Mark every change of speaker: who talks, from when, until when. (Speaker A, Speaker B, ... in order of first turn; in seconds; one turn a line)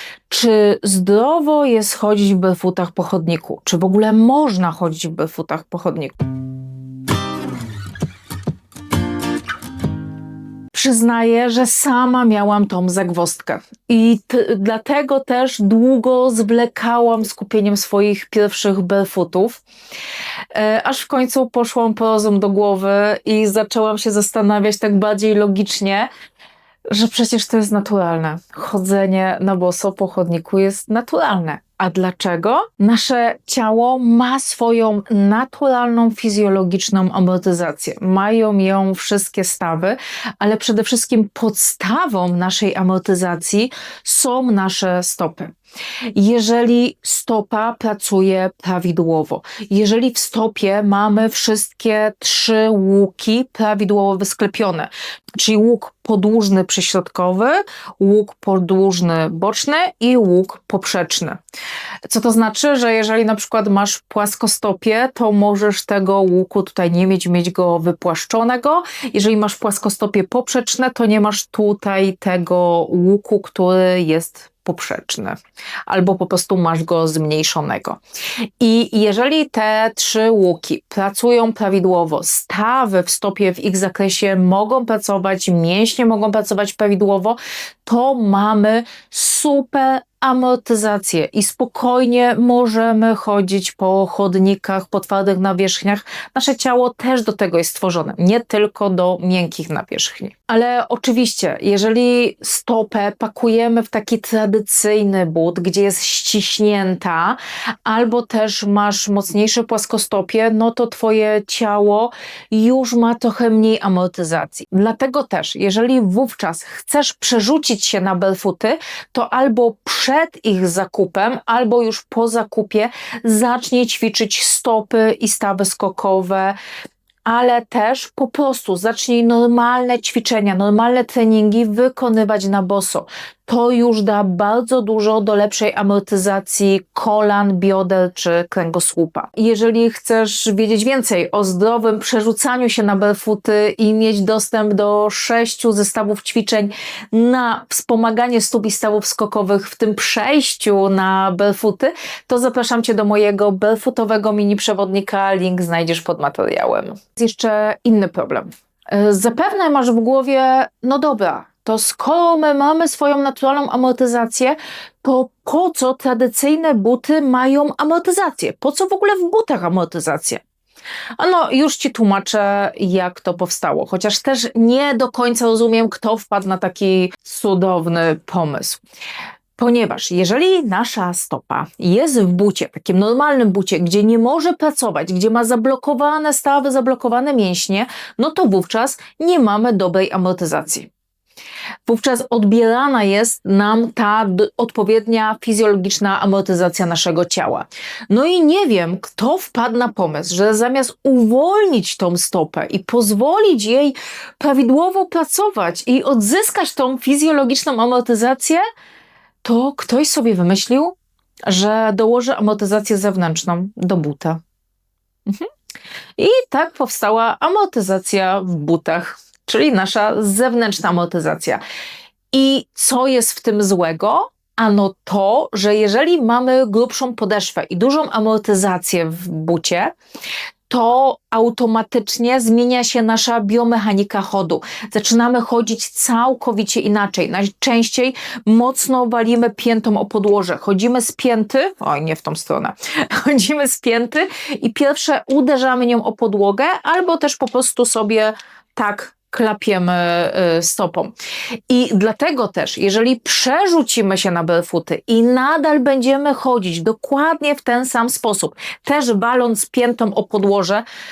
Speaker A: 0.3-6.1
Speaker A: 10.7-19.6
Speaker A: 20.5-26.1
Speaker A: 26.9-45.5
Speaker A: 46.1-61.4
Speaker A: 62.0-75.3
Speaker A: 75.9-78.0
Speaker A: 78.6-126.5
Speaker A: 127.2-170.4
Speaker A: 171.2-178.8
Speaker A: 179.6-190.9
Speaker A: 191.9-208.6
Speaker A: 209.4-214.4
Speaker A: 216.2-221.6
Speaker A: 222.3-229.9
Speaker A: 230.7-251.1
Speaker A: 251.7-260.8